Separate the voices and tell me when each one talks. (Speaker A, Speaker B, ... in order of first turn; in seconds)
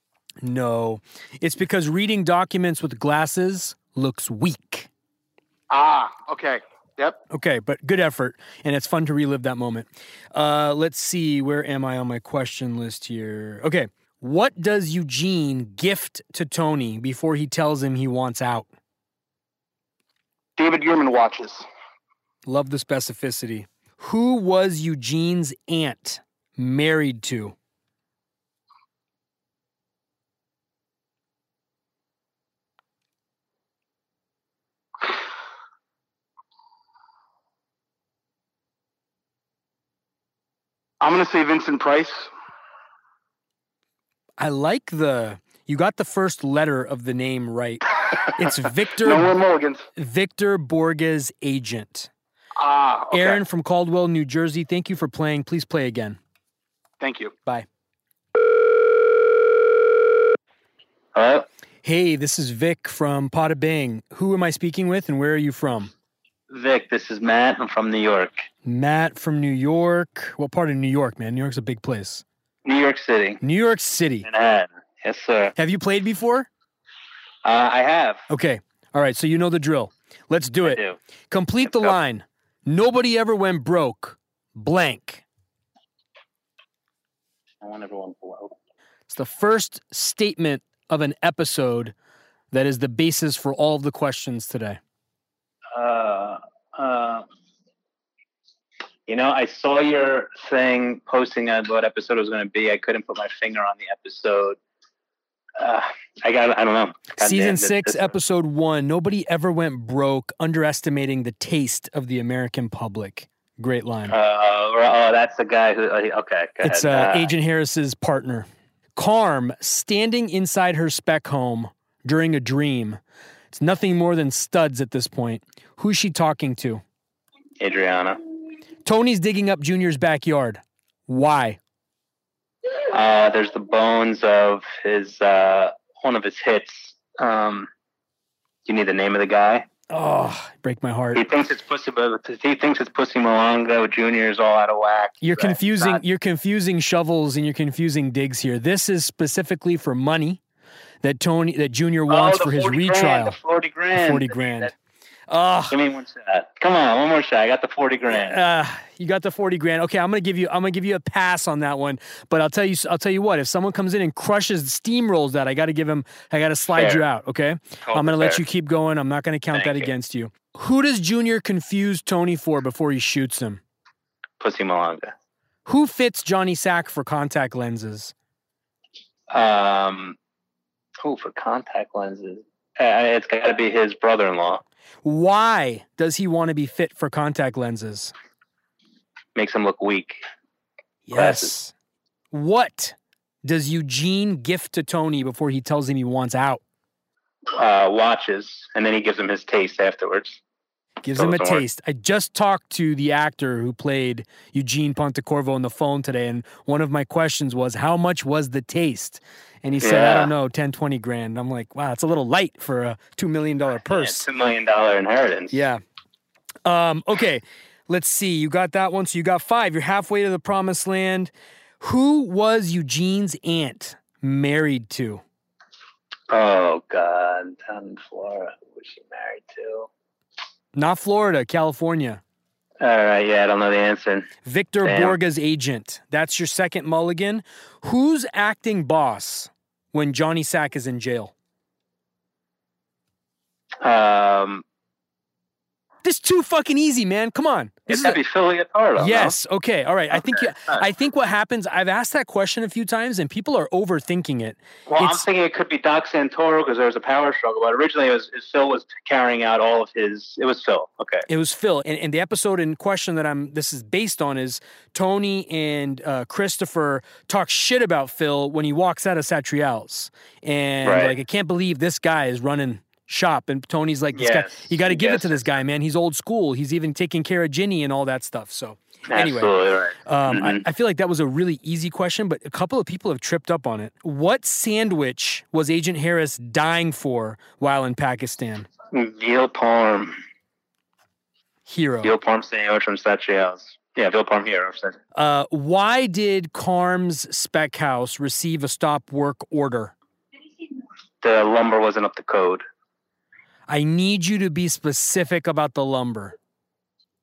Speaker A: 0.4-4.9, 7.3-18.7, 22.4-27.5, 44.4-49.3, 50.0-52.1, 53.1-56.2, 61.8-65.9, 68.6-72.2, 73.4-74.3, 75.5-76.5, 78.3-85.2, 89.1-91.9, 92.5-94.8, 107.2-114.1, 116.6-123.0, 123.5-126.8, 128.8-131.6, 139.9-141.2, 145.2-150.4, 151.0-153.4, 153.9-154.7, 155.3-155.8, 158.1-173.6, 175.7-178.1, 185.0-188.1, 191.1-191.7, 192.3-196.6, 201.0-214.3, 215.5-215.8, 216.6-225.2, 230.7-232.2, 234.4-241.3, 246.0-248.2, 249.0-255.2, 261.3-279.5, 280.0-288.7, 291.7-292.1, 295.1-299.9, 303.7-306.3
Speaker B: 5.7-7.2, 20.6-21.6, 41.0-42.3, 49.0-49.9, 52.6-53.4, 57.0-57.3
Speaker C: 61.1-61.5, 66.5-68.5, 72.6-73.4, 74.2-75.5, 77.4-78.2, 80.6-81.0, 81.6-82.0, 87.6-88.5, 95.7-97.2, 99.1-104.6, 105.6-108.1, 114.1-117.3, 127.6-128.2, 132.9-137.7, 138.6-139.7, 141.1-146.0, 152.1-154.7, 155.7-158.4, 166.7-167.0, 167.8-168.4, 169.5-169.9, 174.4-175.1, 179.3-180.2, 181.0-184.6, 189.3-190.2, 191.1-191.6, 197.5-200.4, 201.1-201.6, 209.8-210.3, 213.9-215.6, 226.3-229.9, 232.8-234.3, 234.8-235.2, 243.8-244.6, 247.9-249.3, 250.1-250.8, 254.9-261.2, 270.8-271.1, 274.1-275.4, 279.1-280.6, 288.9-290.2, 292.0-295.0, 301.2-302.6